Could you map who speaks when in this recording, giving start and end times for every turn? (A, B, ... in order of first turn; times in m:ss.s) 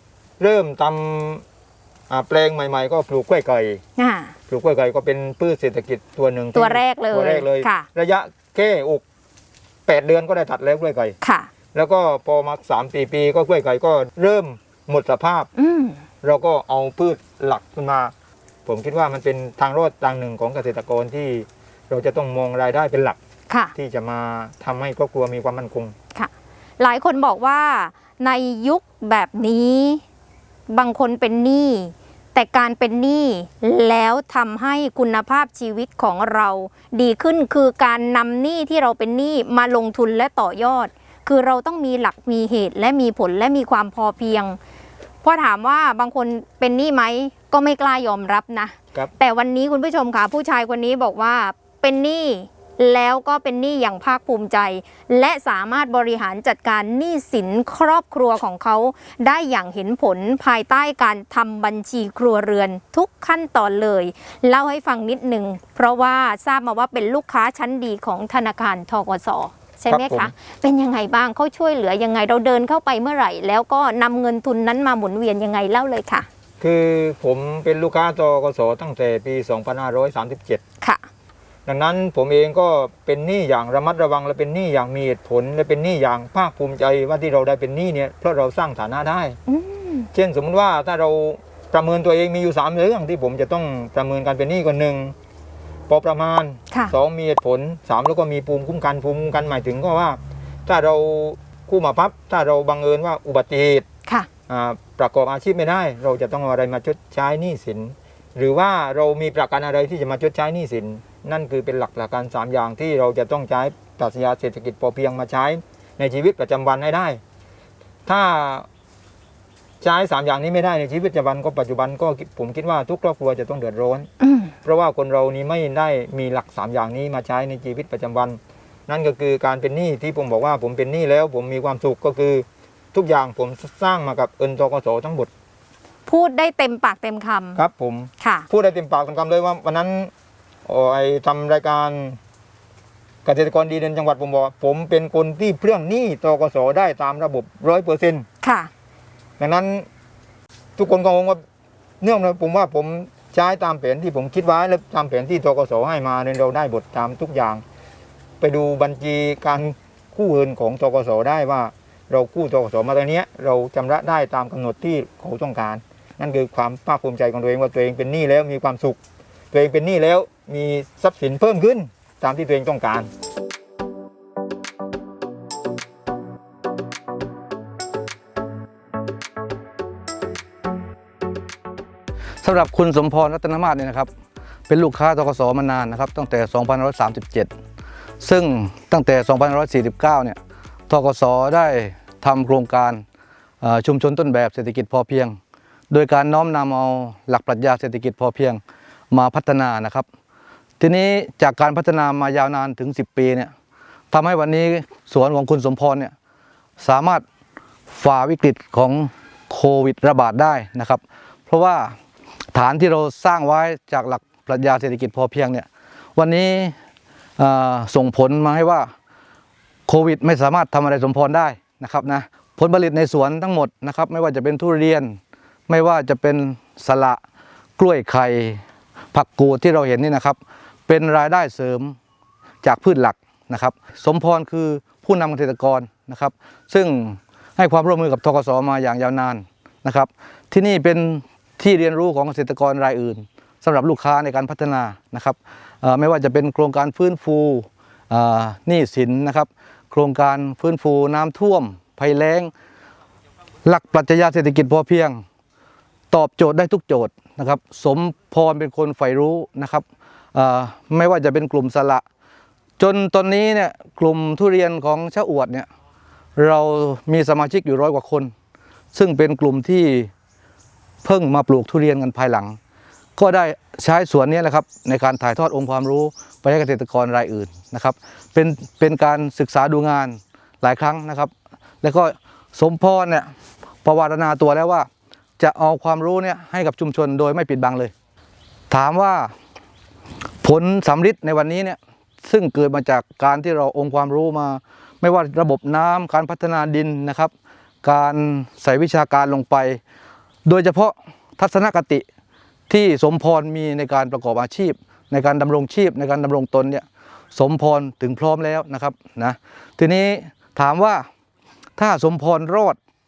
0:00.4-0:01.4 A
0:02.1-0:03.8 A
0:04.0-0:04.3 B
0:04.5-0:09.0 A
0:06.5-0:07.9 B
0:09.9-0:11.1 A
0:11.2-0:11.5 B
0:11.7-0:15.5 A
0:15.6-0:16.0 B
0:16.2-0:18.1 A
0:18.6-0:23.2 A
0:23.8-0:25.9 A
0:26.1-0:30.0 B
0:30.7-0:44.6 B
0:45.2-1:16.3 B
1:09.9-1:10.3 A
1:16.6-1:20.6 A
1:21.6-1:29.4 A
1:29.5-1:30.1 B
1:30.1-1:35.1 A
1:35.9-1:43.9 A
1:44.5-1:57.2 A
1:58.1-1:58.7 A
1:59.8-2:04.1 A
2:04.2-2:04.5 B
2:04.6-2:15.3 A
2:16.1-2:17.6 B
2:17.6-2:20.1 A
2:18.2-2:18.5 B
2:20.6-2:22.2 A
2:23.2-2:28.3 A
2:28.4-2:28.7 B
2:29.4-2:29.9 A
2:30.8-2:31.4 A
2:32.0-2:37.6 A
2:38.4-2:49.0 A
2:49.5-2:53.1 A
3:02.4-3:04.1 C
3:04.7-3:07.5 C
3:08.2-3:13.0 C
3:13.6-3:15.4 C
3:15.9-3:20.1 C
3:20.8-3:23.5 C
3:24.1-3:26.1 C
3:26.8-3:27.2 C
3:27.9-3:32.0 C
3:32.5-3:36.8 C
3:37.4-3:38.9 C
3:39.9-3:47.2 C
3:47.8-3:52.0 C
3:52.6-4:12.5 C
4:13.6-4:15.2 C
4:16.1-4:22.0 C
4:22.8-4:25.7 C
4:26.4-4:28.3 C
4:28.9-4:30.1 C
4:31.0-4:32.6 C
4:33.2-4:43.3 C
4:43.8-4:47.9 C
4:48.7-4:49.3 C
4:50.4-4:57.3 C
4:57.8-4:59.8 C
5:00.5-5:02.0 C
5:02.7-5:11.1 C
5:11.8-5:12.8 C